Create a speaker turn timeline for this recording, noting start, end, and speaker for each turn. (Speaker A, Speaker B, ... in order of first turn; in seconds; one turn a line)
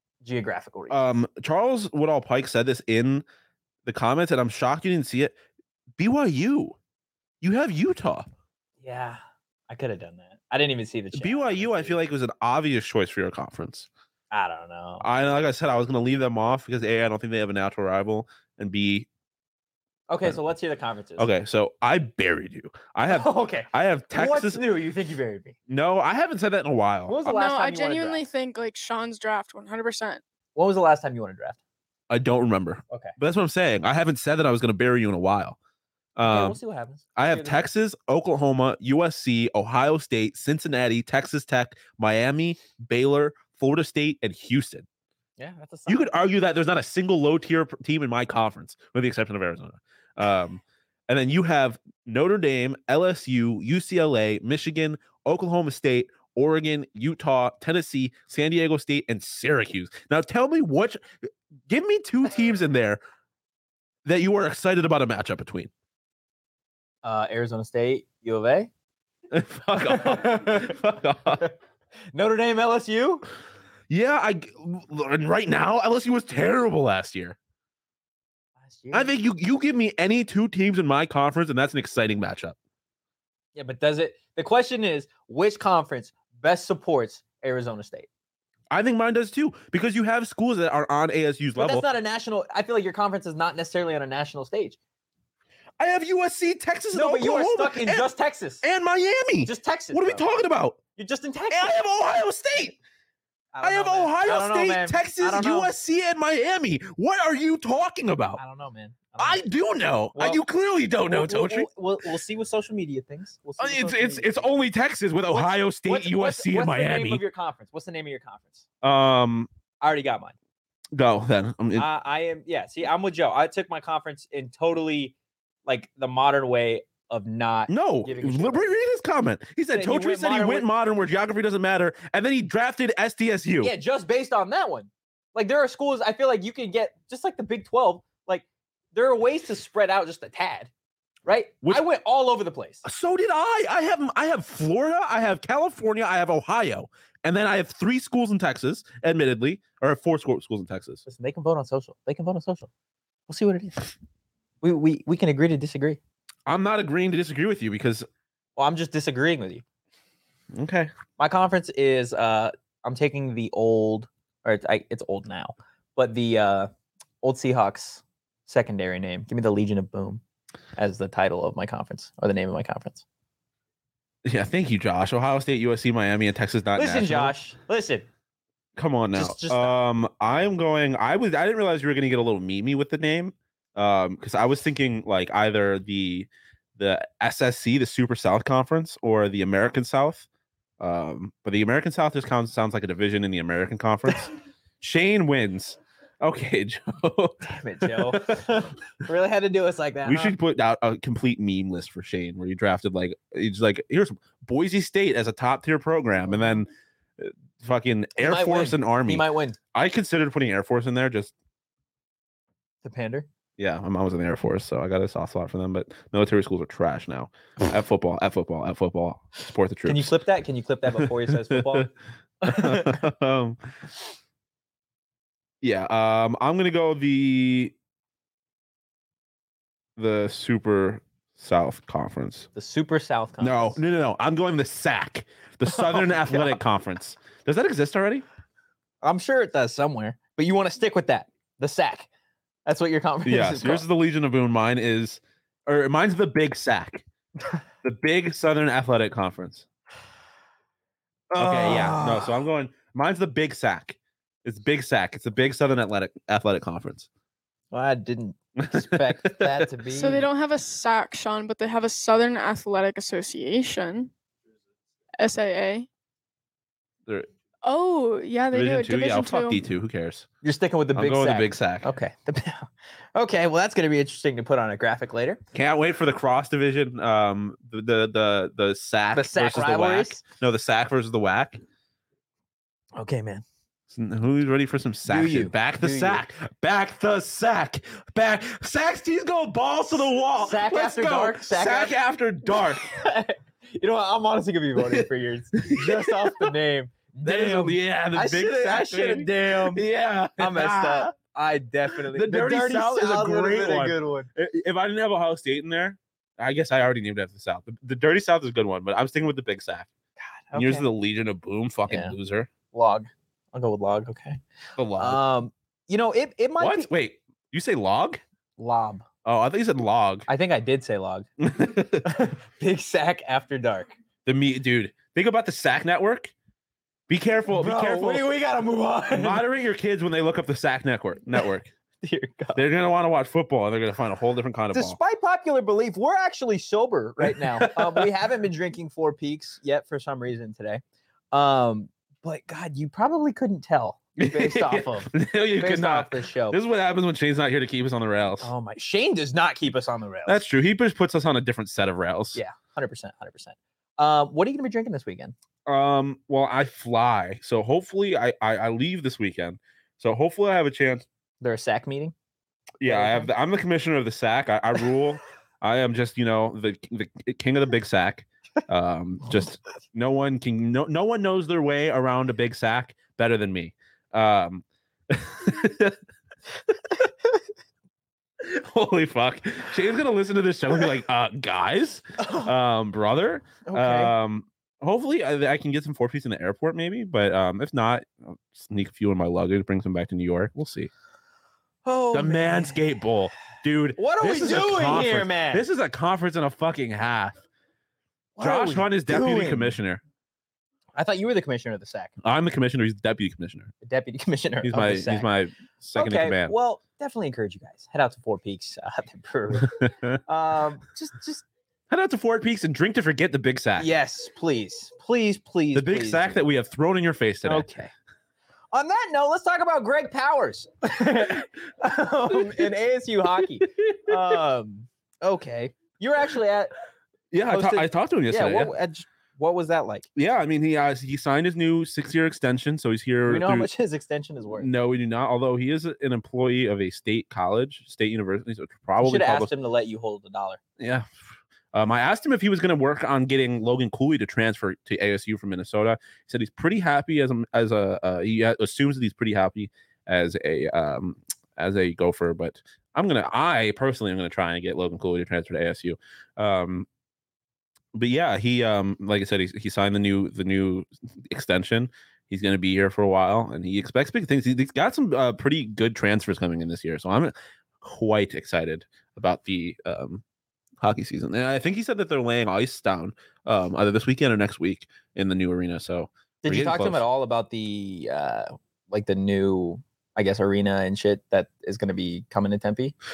Speaker A: 0.2-1.1
Speaker B: 0.9-3.2
Speaker B: 3.9-5.3
Speaker B: 6.0-6.8
Speaker B: 7.4-8.3
Speaker A: 8.8-12.0
Speaker B: 11.1-13.9
Speaker A: 14.3-15.1
Speaker B: 15.0-19.1
Speaker A: 20.1-21.3
Speaker B: 21.2-24.6
Speaker A: 23.1-25.6
Speaker B: 25.7-27.2
Speaker A: 27.1-28.2
Speaker C: 27.2-30.2
Speaker A: 30.5-31.6
Speaker B: 32.1-35.6
Speaker A: 32.9-33.1
Speaker B: 36.1-36.6
Speaker A: 36.2-37.6
Speaker B: 37.1-44.9
Speaker A: 45.4-46.1
Speaker B: 45.9-61.0
Speaker B: 61.7-63.0
Speaker B: 64.0-65.7
Speaker A: 67.0-68.7
Speaker B: 69.3-71.4
Speaker A: 69.8-70.8
Speaker A: 72.1-73.2
Speaker B: 73.9-77.4
Speaker A: 78.6-79.1
Speaker B: 78.9-82.5
Speaker A: 83.5-88.1
Speaker B: 88.7-91.8
Speaker A: 91.6-94.8
Speaker B: 95.8-98.1
Speaker A: 96.9-98.6
Speaker B: 98.6-100.8
Speaker A: 99.4-100.3
Speaker A: 101.0-101.8
Speaker B: 101.5-102.8
Speaker A: 103.5-105.7
Speaker B: 103.6-108.4
Speaker A: 108.4-109.4
Speaker B: 109.2-111.7
Speaker A: 110.1-110.4
Speaker A: 111.1-114.5
Speaker B: 113.6-117.2
Speaker A: 115.3-118.7
Speaker B: 118.8-119.5
Speaker A: 119.8-120.3
Speaker B: 120.9-121.9
Speaker A: 121.8-125.1
Speaker A: 125.7-128.7
Speaker B: 127.7-133.7
Speaker A: 129.7-130.7
Speaker A: 133.6-140.7
Speaker A: 141.2-142.8
Speaker B: 142.8-151.0
Speaker A: 151.1-152.7
Speaker A: 153.3-153.9
Speaker A: 154.6-156.0
Speaker B: 156.4-158.1
Speaker A: 158.6-159.6
Speaker B: 160.5-160.9
Speaker A: 161.2-166.7
Speaker A: 167.2-170.2
Speaker A: 170.8-173.0
Speaker B: 174.2-177.3
Speaker A: 176.8-178.1
Speaker B: 178.8-190.2
Speaker A: 179.1-179.8
Speaker B: 190.8-198.4
Speaker A: 197.4-200.3
Speaker B: 200.0-211.3
Speaker A: 208.2-209.6
Speaker A: 212.8-213.3
Speaker B: 213.6-220.1
Speaker A: 219.8-221.9
Speaker B: 221.0-221.9
Speaker A: 222.4-223.0
Speaker B: 222.4-223.6
Speaker B: 225.6-227.7
Speaker B: 230.0-232.5
Speaker A: 232.5-233.8
Speaker B: 233.4-238.2
Speaker A: 235.7-236.5
Speaker A: 239.0-242.1
Speaker A: 242.7-243.8
Speaker B: 243.2-247.0
Speaker B: 247.8-249.7
Speaker B: 251.3-257.1
Speaker A: 251.3-252.4
Speaker A: 257.7-260.3
Speaker B: 258.6-259.6
Speaker C: 259.9-264.1
Speaker C: 265.2-265.9
Speaker C: 267.6-269.6
Speaker B: 268.5-270.3
Speaker A: 270.4-275.4
Speaker B: 270.9-271.9
Speaker B: 275.5-281.6
Speaker A: 279.1-280.2
Speaker A: 282.9-283.4
Speaker B: 283.9-292.8
Speaker A: 285.1-286.2
Speaker A: 290.4-291.9
Speaker A: 292.5-299.8
Speaker B: 294.9-296.5
Speaker B: 297.2-301.1
Speaker A: 300.4-304.3
Speaker B: 301.9-309.9
Speaker A: 310.2-310.9
Speaker B: 310.5-312.5
Speaker A: 311.9-312.1
Speaker A: 312.7-314.4
Speaker B: 314.8-315.2
Speaker A: 315.0-316.9
Speaker B: 316.6-318.2
Speaker A: 318.6-319.0
Speaker B: 319.2-320.3
Speaker A: 320.3-321.3
Speaker B: 321.4-322.1
Speaker A: 322.0-323.9
Speaker B: 324.2-326.3
Speaker B: 327.1-328.2
Speaker A: 327.5-329.4
Speaker B: 329.1-331.7
Speaker A: 332.0-332.6
Speaker B: 332.6-335.0
Speaker A: 334.7-346.6
Speaker B: 337.2-338.1
Speaker B: 344.2-348.5
Speaker A: 348.4-350.4
Speaker B: 350.2-352.4
Speaker A: 352.3-355.3
Speaker B: 355.6-361.1
Speaker A: 361.4-362.1
Speaker B: 362.8-376.0
Speaker A: 362.9-363.3
Speaker B: 378.4-390.9
Speaker A: 382.2-382.5
Speaker A: 383.6-384.1
Speaker A: 391.8-392.8
Speaker B: 392.1-397.4
Speaker A: 394.0-395.6
Speaker A: 398.4-399.8
Speaker B: 398.4-400.0
Speaker A: 400.9-402.1
Speaker B: 402.2-403.7
Speaker A: 403.8-405.3
Speaker B: 404.6-406.5
Speaker A: 405.9-411.4
Speaker B: 411.9-413.9
Speaker A: 413.8-416.4
Speaker B: 415.7-417.6
Speaker A: 417.4-417.9
Speaker A: 418.7-426.7
Speaker B: 423.8-424.2
Speaker B: 427.3-428.7
Speaker A: 427.5-430.1
Speaker B: 430.1-433.7
Speaker A: 433.2-434.7
Speaker B: 434.6-439.5
Speaker A: 439.0-440.6
Speaker B: 440.8-441.1
Speaker B: 441.7-456.9
Speaker B: 457.9-470.2
Speaker B: 470.8-477.0
Speaker A: 476.4-482.9